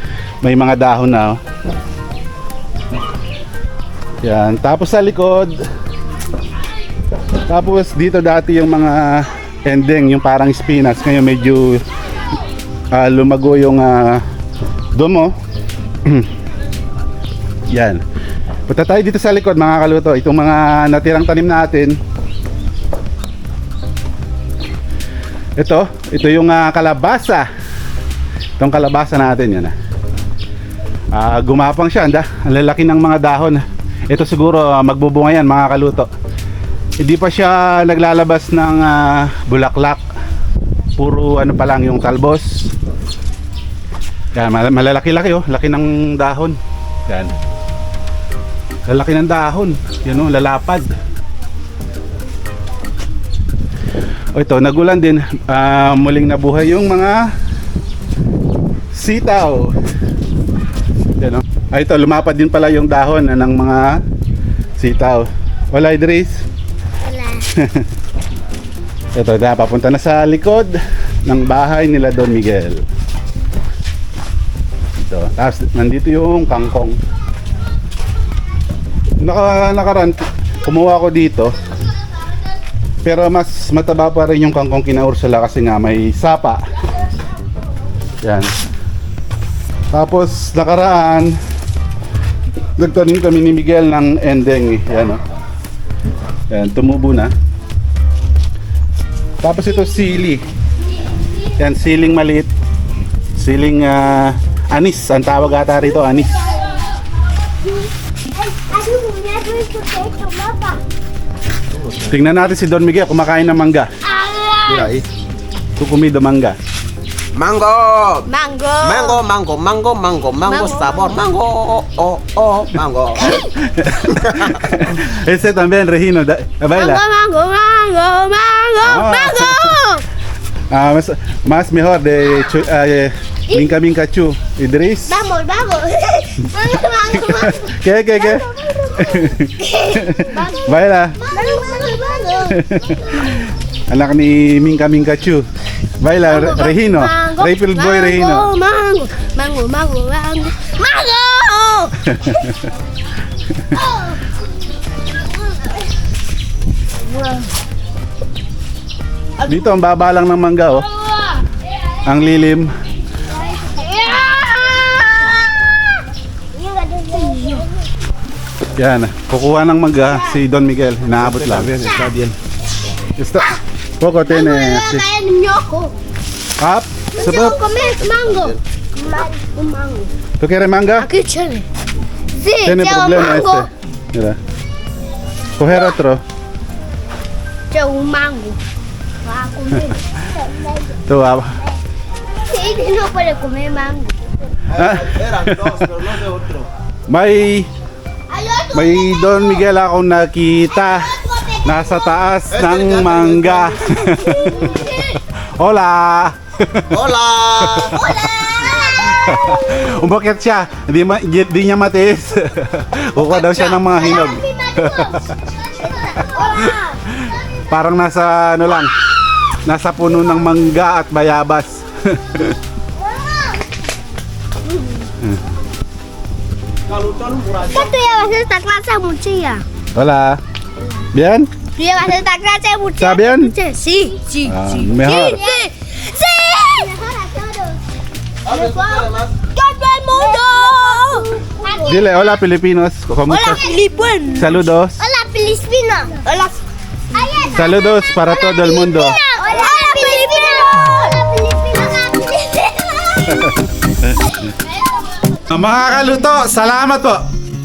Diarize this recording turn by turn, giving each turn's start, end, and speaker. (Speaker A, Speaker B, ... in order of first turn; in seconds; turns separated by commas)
Speaker A: 0.4-1.4, Speaker A: 4.2-5.5, Speaker A: 7.5-11.8, Speaker A: 12.9-14.2, Speaker A: 14.9-15.3, Speaker A: 17.7-18.0, Speaker A: 18.7-21.9, Speaker A: 25.6-27.5, Speaker A: 28.6-29.7, Speaker A: 31.1-36.1, Speaker A: 37.0-40.0, Speaker A: 41.0-42.7, Speaker A: 44.3-47.3, Speaker A: 48.9-50.9, Speaker A: 54.3-57.3, Speaker A: 58.9-59.7, Speaker A: 61.2-64.0, Speaker A: 64.8-66.4, Speaker B: 67.0-67.4, Speaker A: 67.6-67.9, Speaker A: 69.1-72.8, Speaker A: 75.0-77.0, Speaker A: 79.2-81.5, Speaker A: 83.0-86.6, Speaker A: 88.2-88.5, Speaker A: 89.9-91.3, Speaker A: 92.8-95.2, Speaker A: 96.5-97.3, Speaker A: 99.4-100.4, Speaker A: 101.6-102.5, Speaker A: 103.3-106.5, Speaker B: 108.3-110.8, Speaker A: 112.1-113.9, Speaker B: 114.0-115.0, Speaker C: 114.7-115.1, Speaker A: 115.8-116.6, Speaker C: 117.3-118.2, Speaker B: 118.2-119.2, Speaker C: 118.8-123.4, Speaker B: 120.4-121.2, Speaker A: 123.4-127.0, Speaker B: 126.7-130.0, Speaker A: 128.8-129.8, Speaker A: 130.7-135.3, Speaker B: 135.1-142.7, Speaker A: 137.2-141.2, Speaker A: 142.5-145.4, Speaker A: 146.0-148.5, Speaker B: 146.2-152.0, Speaker A: 152.1-152.6, Speaker B: 153.7-154.2, Speaker B: 155.4-155.8, Speaker B: 157.1-157.4, Speaker A: 159.4-160.8, Speaker A: 162.1-162.7, Speaker B: 163.3-165.4, Speaker B: 166.5-167.8, Speaker A: 168.8-171.8, Speaker B: 170.1-170.4, Speaker C: 171.2-172.3, Speaker A: 173.2-175.1, Speaker B: 174.3-175.9, Speaker A: 176.6-177.6, Speaker B: 177.1-180.1, Speaker C: 178.2-178.6, Speaker A: 180.4-181.1, Speaker B: 181.0-181.6, Speaker B: 182.3-183.7, Speaker A: 182.6-184.4, Speaker A: 185.6-186.2, Speaker B: 187.7-188.6, Speaker B: 189.2-191.0, Speaker A: 191.1-191.5, Speaker B: 192.4-194.5, Speaker C: 194.7-196.7, Speaker A: 194.7-195.8, Speaker A: 197.1-197.7, Speaker B: 198.3-199.6, Speaker A: 198.7-206.9, Speaker B: 200.9-201.7, Speaker C: 202.5-203.9, Speaker B: 204.2-205.1, Speaker C: 206.9-208.0, Speaker A: 207.7-208.1, Speaker B: 207.9-209.5, Speaker A: 209.1-215.3, Speaker B: 213.2-215.3, Speaker B: 215.8-217.0, Speaker A: 217.7-218.9, Speaker A: 219.6-222.6, Speaker B: 223.1-223.6, Speaker B: 224.7-225.0, Speaker C: 226.9-227.9, Speaker B: 227.6-229.6, Speaker A: 229.9-230.4, Speaker A: 231.1-231.5, Speaker B: 231.8-237.8, Speaker A: 233.0-233.5, Speaker A: 234.4-235.4, Speaker C: 238.4-239.4, Speaker B: 238.5-242.2, Speaker A: 241.8-243.7, Speaker B: 243.3-246.6, Speaker A: 244.3-245.0, Speaker B: 247.1-253.5, Speaker A: 247.5-249.2, Speaker C: 249.6-250.7, Speaker A: 253.3-254.3, Speaker A: 255.5-257.3